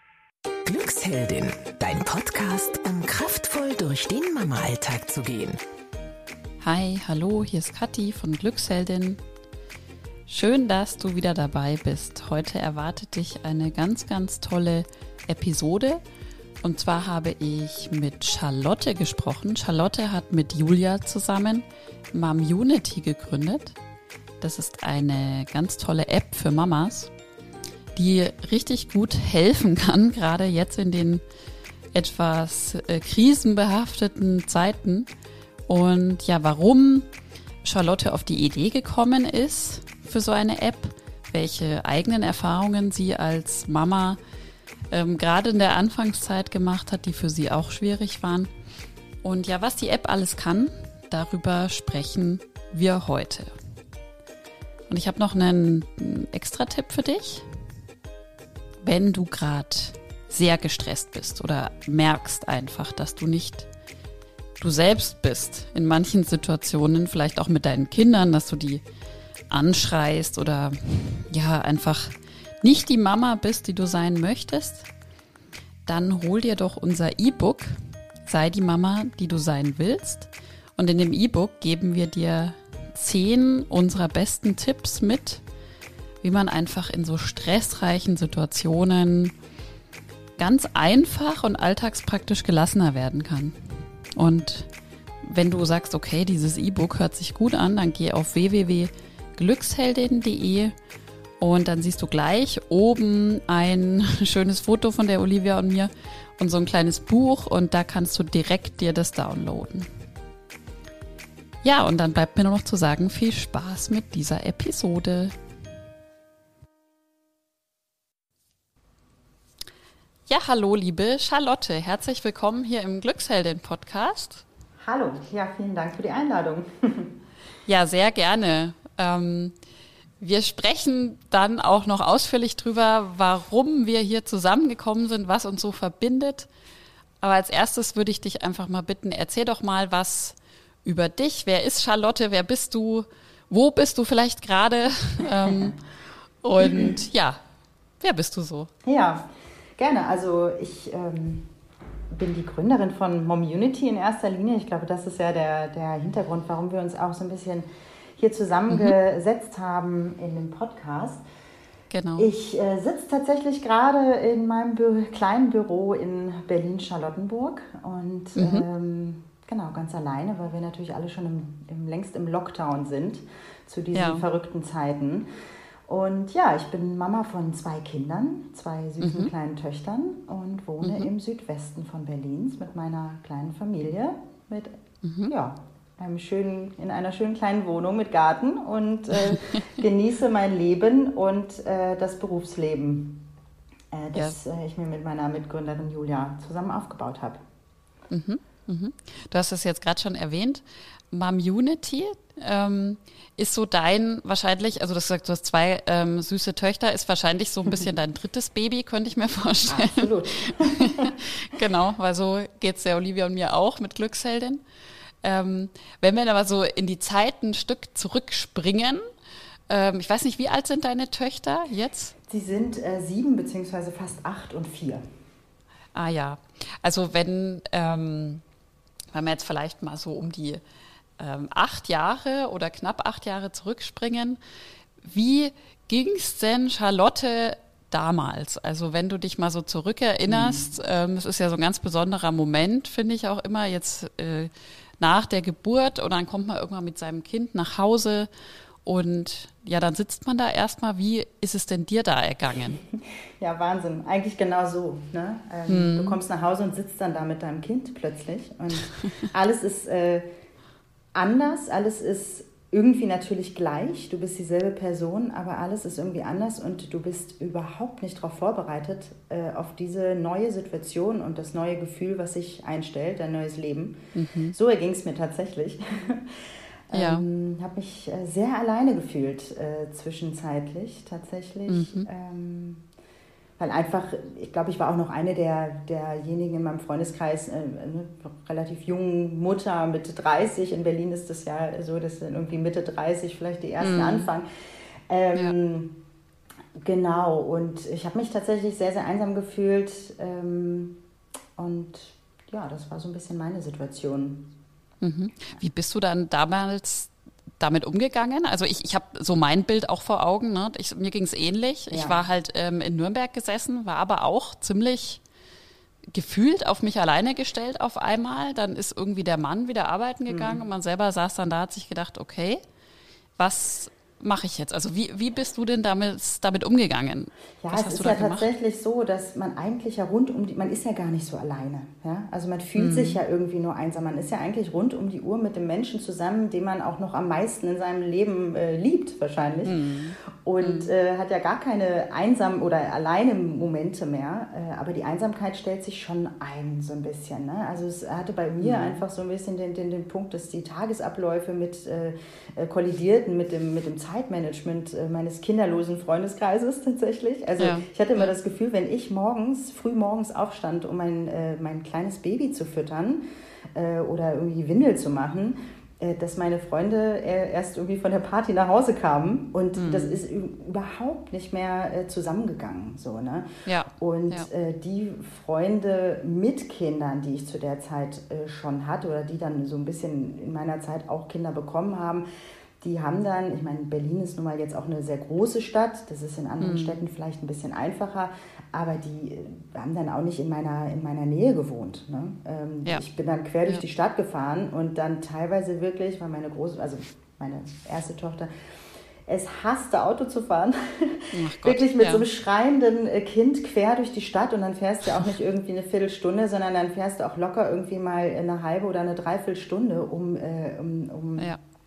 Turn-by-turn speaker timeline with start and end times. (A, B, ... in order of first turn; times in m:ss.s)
0:00.6-0:05.6 A
0:06.6-0:09.2 B
0:10.3-0:16.0 B
0:16.6-0:23.8 B
0:24.4-0:27.1 B
0:27.9-0:31.2 B
0:31.9-0:35.1 B
0:35.7-0:37.1 B
0:37.6-0:44.2 B
0:44.9-0:48.5 B
0:49.2-0:53.5 B
0:54.9-0:57.5 B
0:58.8-1:03.7 B
1:04.6-1:08.8 B
1:09.5-1:14.9 B
1:15.8-1:25.4 B
1:26.2-1:29.3 B
1:30.4-1:33.6 B
1:34.2-1:34.7 B
1:35.2-1:40.7 B
1:41.4-1:49.9 B
1:51.6-1:55.3 B
2:00.3-2:04.4 B
2:04.8-2:07.1 C
2:07.6-2:09.5 B
2:10.2-2:16.5 B
2:17.2-2:25.8 B
2:25.4-2:25.8 C
2:26.4-2:27.4 B
2:26.6-2:26.9 C
2:28.0-2:28.7 B
2:28.8-2:31.5 C
2:32.1-2:41.2 C
2:38.7-2:38.9 B
2:41.9-2:42.3 B
2:42.2-2:55.3 C
2:48.4-2:48.6 B
2:53.9-2:54.2 B
2:55.9-3:13.3 C
2:59.0-2:59.3 B
3:00.8-3:01.1 B
3:05.0-3:05.3 B
3:09.3-3:09.6 B
3:13.9-3:17.4 C
3:18.1-3:34.6 B
3:29.7-3:31.2 C
3:35.2-3:39.0 B
3:39.7-3:42.1 B
3:42.3-3:45.0 C
3:45.9-3:48.4 B
3:49.1-3:50.6 B
3:51.2-3:54.4 B
3:55.0-4:08.3 B
4:00.3-4:00.7 C
4:08.8-4:12.8 B
4:13.4-4:20.2 C
4:15.7-4:16.2 B
4:21.1-4:34.0 C
4:34.1-4:34.5 B
4:34.5-4:42.8 C
4:36.9-4:37.2 B
4:41.7-4:42.1 B
4:43.6-4:54.5 C
4:53.8-4:54.3 B
4:55.1-4:56.0 C
4:56.8-5:01.0 C
5:01.6-5:04.5 C
5:05.0-5:15.2 B
5:11.9-5:12.2 C
5:16.1-5:22.6 B
5:20.3-5:20.6 C
5:23.4-5:28.5 B
5:27.6-5:39.8 C
5:32.8-5:33.2 B
5:39.6-5:40.9 B
5:40.4-6:03.2 C
5:48.6-5:49.0 B
5:57.6-5:58.3 B
6:03.7-6:22.2 C
6:09.8-6:10.2 B
6:13.6-6:14.5 B
6:22.8-6:38.5 C
6:26.6-6:27.0 B
6:39.2-6:51.5 C
6:41.3-6:42.2 B